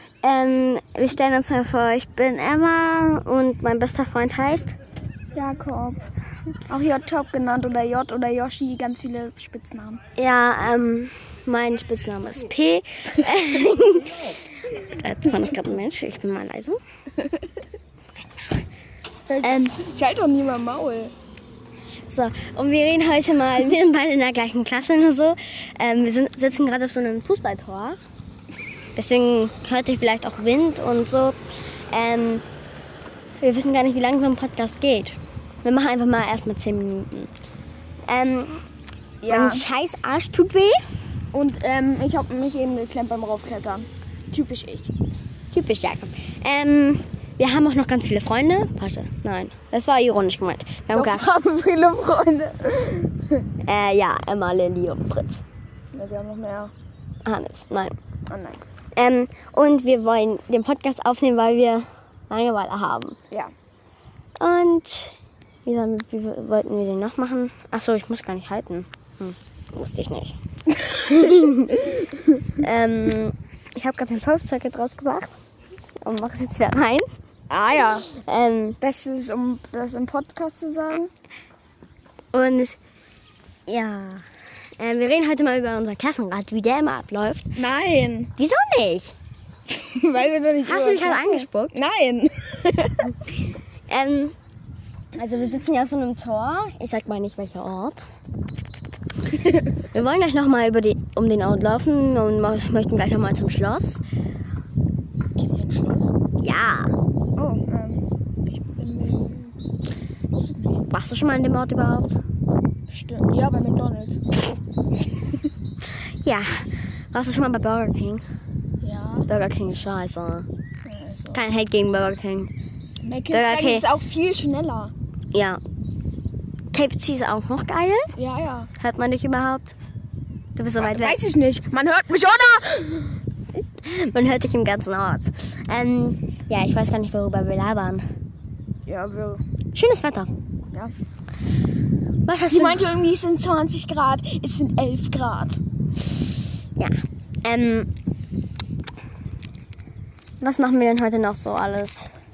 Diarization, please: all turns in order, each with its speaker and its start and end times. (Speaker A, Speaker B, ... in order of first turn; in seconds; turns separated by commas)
Speaker A: 0.2-4.7, Speaker B: 5.3-6.0, Speaker B: 6.7-10.0, Speaker A: 10.2-16.8, Speaker B: 19.3-21.1, Speaker A: 19.4-19.8, Speaker A: 22.1-28.0, Speaker A: 28.9-31.4, Speaker A: 31.9-32.4, Speaker A: 33.4-37.3, Speaker A: 38.1-38.6, Speaker B: 39.2-39.7, Speaker A: 39.3-40.8, Speaker B: 41.3-44.9, Speaker A: 45.5-51.4, Speaker B: 50.9-53.5, Speaker A: 53.7-55.4, Speaker B: 55.9-56.7, Speaker A: 57.2-57.9, Speaker B: 58.3-58.6, Speaker A: 59.0-63.2, Speaker A: 64.4-70.3, Speaker B: 71.0-72.0, Speaker A: 71.0-71.9, Speaker A: 72.6-75.3, Speaker A: 76.0-77.1, Speaker B: 77.5-78.1, Speaker A: 78.1-78.8, Speaker B: 78.8-81.1, Speaker A: 82.3-82.8, Speaker A: 83.7-84.3, Speaker A: 84.8-87.6, Speaker B: 87.6-88.3, Speaker A: 88.4-89.2, Speaker B: 89.7-93.1, Speaker A: 90.7-91.7, Speaker A: 93.9-94.3, Speaker A: 95.1-98.0, Speaker B: 99.3-99.6, Speaker A: 99.9-104.0, Speaker B: 105.4-106.1, Speaker A: 106.4-106.9, Speaker B: 107.4-109.6, Speaker B: 110.3-110.8, Speaker A: 110.9-112.2, Speaker B: 112.9-114.2, Speaker A: 115.9-118.2, Speaker B: 118.8-119.3, Speaker A: 119.3-120.5, Speaker B: 120.9-121.4, Speaker A: 121.3-122.5, Speaker B: 123.0-124.9, Speaker A: 123.3-123.9, Speaker A: 125.3-125.6, Speaker A: 126.7-128.1, Speaker B: 128.2-128.7, Speaker A: 128.8-129.8, Speaker A: 130.6-131.2, Speaker B: 130.8-133.2, Speaker A: 133.8-138.1, Speaker B: 138.9-139.4, Speaker A: 139.8-140.3, Speaker A: 142.3-143.0, Speaker B: 142.5-145.6, Speaker A: 146.8-147.9, Speaker A: 150.4-152.1